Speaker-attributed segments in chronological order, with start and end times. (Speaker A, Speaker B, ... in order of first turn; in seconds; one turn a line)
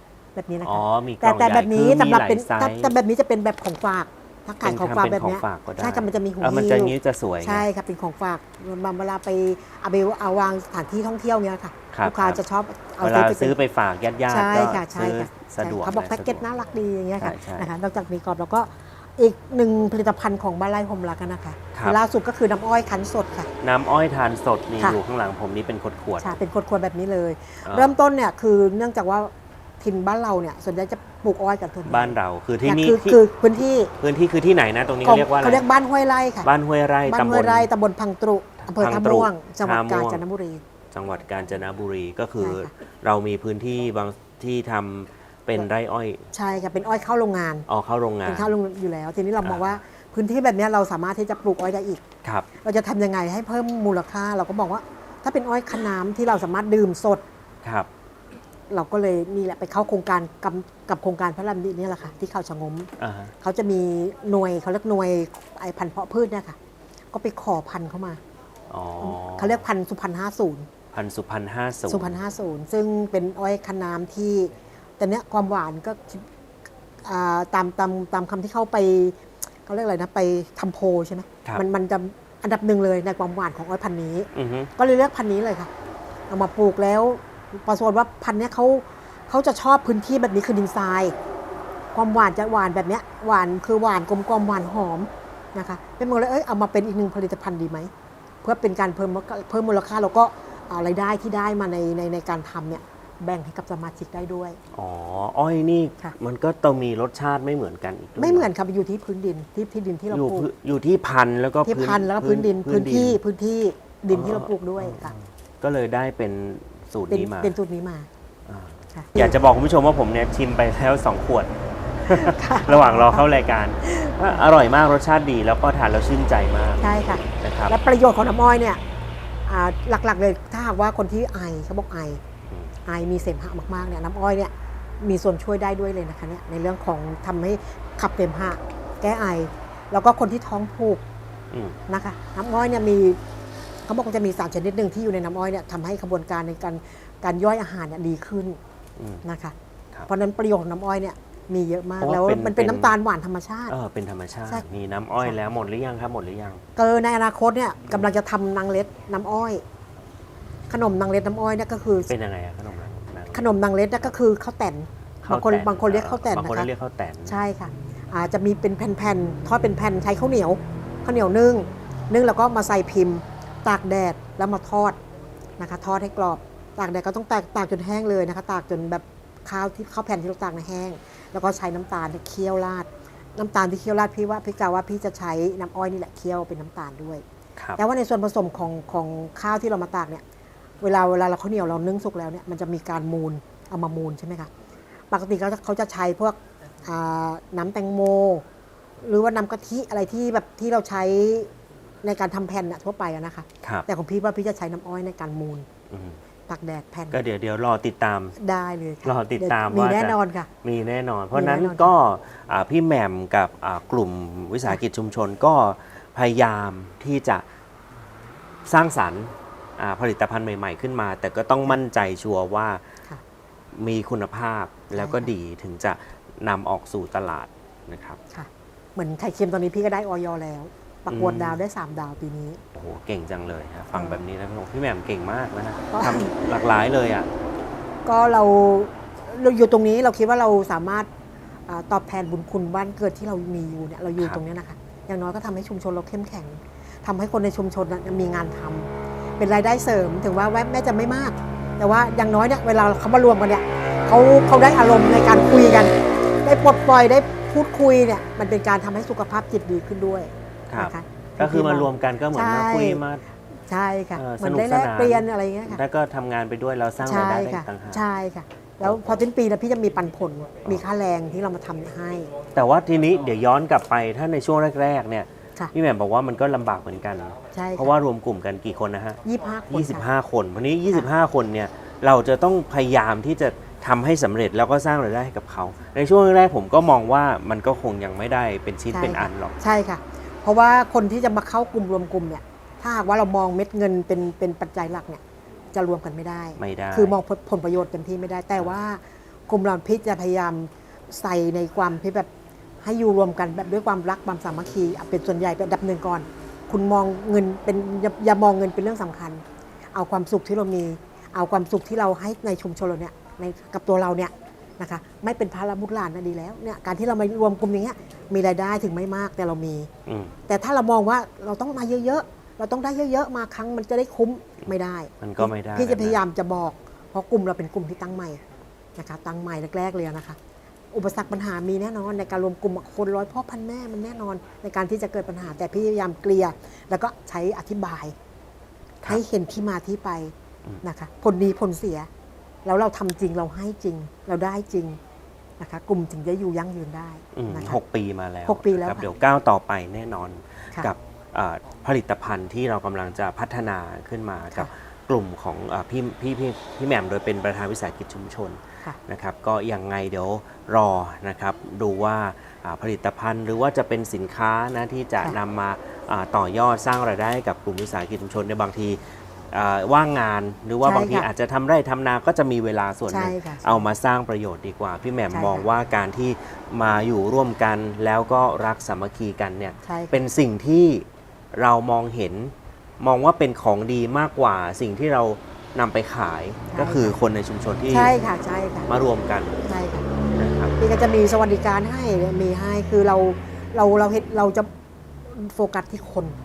Speaker A: 0.3-13.6
Speaker B: 0.6-2.9
Speaker B: 4.6-7.7
Speaker B: 11.9-12.4
Speaker B: 13.0-16.4
Speaker A: 14.3-23.5
Speaker B: 17.2-17.7
Speaker B: 21.7-22.0
Speaker B: 23.6-26.4
Speaker A: 26.2-33.9
Speaker B: 27.6-27.9
Speaker B: 31.9-33.2
Speaker B: 34.0-35.6
Speaker A: 35.0-36.5
Speaker B: 36.4-37.7
Speaker A: 37.1-40.6
Speaker B: 38.6-40.2
Speaker B: 40.9-46.3
Speaker A: 42.4-42.7
Speaker A: 46.3-47.7
Speaker B: 47.7-48.5
Speaker A: 48.2-52.0
Speaker B: 49.4-49.8
Speaker A: 52.6-57.2
Speaker B: 57.6-57.9
Speaker A: 58.7-66.5
Speaker B: 63.0-63.3
Speaker A: 67.1-68.2
Speaker B: 68.7-69.6
Speaker A: 69.0-70.7
Speaker B: 70.9-72.2
Speaker A: 71.9-76.2
Speaker A: 77.0-85.7
Speaker B: 84.3-84.7
Speaker A: 86.3-91.1
Speaker A: 91.9-97.9
Speaker A: 98.4-104.6
Speaker B: 104.7-108.5
Speaker A: 108.2-110.5
Speaker B: 110.1-113.2
Speaker A: 111.7-115.1
Speaker B: 114.1-117.5
Speaker A: 117.1-118.1
Speaker B: 118.5-126.8
Speaker A: 118.9-119.3
Speaker A: 122.1-123.3
Speaker A: 123.8-124.4
Speaker A: 126.8-128.8
Speaker B: 127.4-127.7
Speaker A: 129.5-132.2
Speaker B: 132.5-132.7
Speaker A: 132.8-141.0
Speaker B: 141.5-141.8
Speaker A: 141.9-143.2
Speaker A: 143.8-148.6
Speaker B: 149.0-149.2
Speaker A: 149.2-149.5
Speaker A: 150.1-153.7
Speaker B: 152.0-152.9
Speaker B: 153.7-156.6
Speaker A: 156.8-159.6
Speaker A: 160.7-162.1
Speaker B: 162.1-163.5
Speaker A: 163.3-166.7
Speaker B: 165.2-167.3
Speaker A: 167.2-175.0
Speaker A: 175.6-187.2
Speaker A: 187.8-190.2
Speaker A: 190.8-194.5
Speaker A: 195.1-198.4
Speaker A: 199.0-201.5
Speaker A: 202.0-205.7
Speaker B: 205.9-206.2
Speaker A: 206.5-207.2
Speaker B: 207.1-208.3
Speaker A: 208.4-210.5
Speaker B: 209.0-217.4
Speaker A: 211.3-211.9
Speaker B: 218.6-222.8
Speaker B: 223.7-228.2
Speaker A: 224.9-225.3
Speaker A: 228.3-232.6
Speaker B: 231.1-231.6
Speaker B: 232.7-237.3
Speaker A: 233.9-234.2
Speaker A: 235.9-236.4
Speaker A: 238.0-241.1
Speaker A: 241.7-263.0
Speaker B: 260.7-263.2
Speaker A: 263.7-265.8
Speaker B: 264.1-268.0
Speaker A: 267.0-272.3
Speaker B: 268.8-269.2
Speaker B: 272.5-289.6
Speaker A: 277.5-277.9
Speaker A: 279.2-280.0
Speaker A: 288.9-295.2
Speaker A: 295.7-302.3
Speaker B: 296.6-297.1
Speaker A: 302.8-309.4
Speaker A: 309.9-319.9
Speaker B: 320.1-320.3
Speaker A: 320.5-328.4
Speaker B: 324.6-326.2
Speaker A: 328.9-330.4
Speaker A: 330.9-338.1
Speaker A: 339.1-342.1
Speaker A: 342.6-345.0
Speaker A: 345.6-347.8
Speaker B: 347.3-388.1
Speaker A: 348.4-349.1
Speaker A: 370.8-371.3
Speaker A: 373.1-373.9
Speaker A: 375.3-375.6
Speaker A: 379.9-380.2
Speaker A: 386.7-387.1
Speaker A: 387.9-388.9
Speaker B: 388.9-389.6
Speaker A: 389.6-390.1
Speaker B: 390.3-390.7
Speaker A: 390.8-394.7
Speaker A: 395.3-396.4